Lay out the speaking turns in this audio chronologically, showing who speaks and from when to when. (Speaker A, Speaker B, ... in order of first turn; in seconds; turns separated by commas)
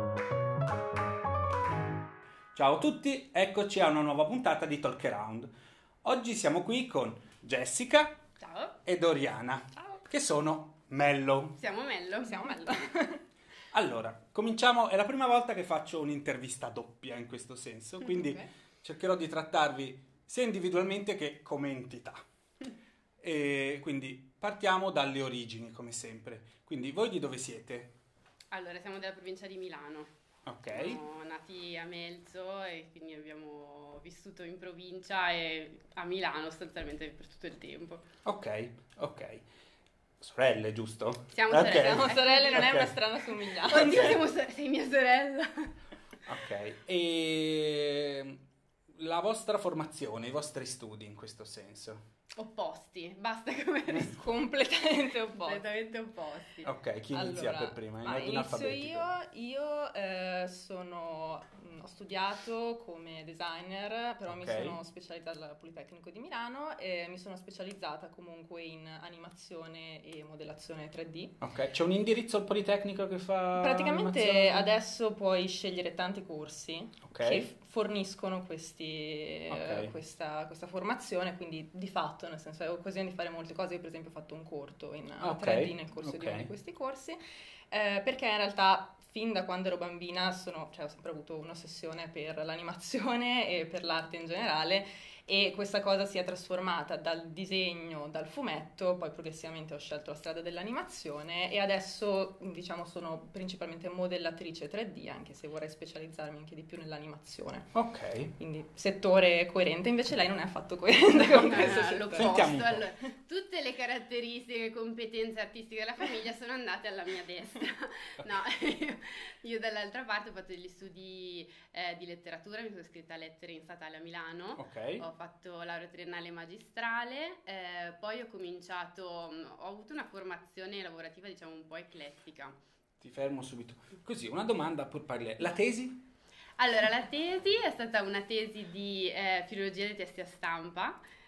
Speaker A: 2.5-5.5, Speaker A: 6.0-8.2, Speaker B: 8.4-8.8, Speaker A: 8.8-11.6, Speaker B: 11.6-12.9, Speaker C: 12.2-13.2, Speaker A: 13.7-22.2, Speaker C: 18.0-18.5, Speaker A: 23.2-27.9, Speaker B: 28.5-30.1, Speaker A: 30.5-31.0, Speaker B: 30.7-38.1, Speaker A: 38.2-39.5, Speaker A: 40.2-43.0, Speaker B: 41.3-42.6, Speaker C: 42.0-44.2, Speaker A: 43.7-44.1, Speaker B: 43.7-45.7, Speaker A: 46.3-52.0, Speaker B: 52.4-54.2, Speaker C: 54.0-55.6, Speaker B: 55.4-56.7, Speaker A: 56.6-59.1, Speaker C: 57.1-71.4, Speaker A: 64.3-64.8, Speaker A: 71.4-74.7, Speaker C: 73.6-87.2, Speaker A: 77.1-77.5, Speaker A: 79.5-79.9, Speaker A: 85.2-86.5, Speaker C: 87.7-107.8, Speaker A: 107.7-108.3, Speaker C: 108.4-112.4, Speaker B: 111.2-132.6, Speaker A: 112.1-112.9, Speaker A: 124.6-125.0, Speaker A: 133.0-136.0, Speaker B: 136.6-141.0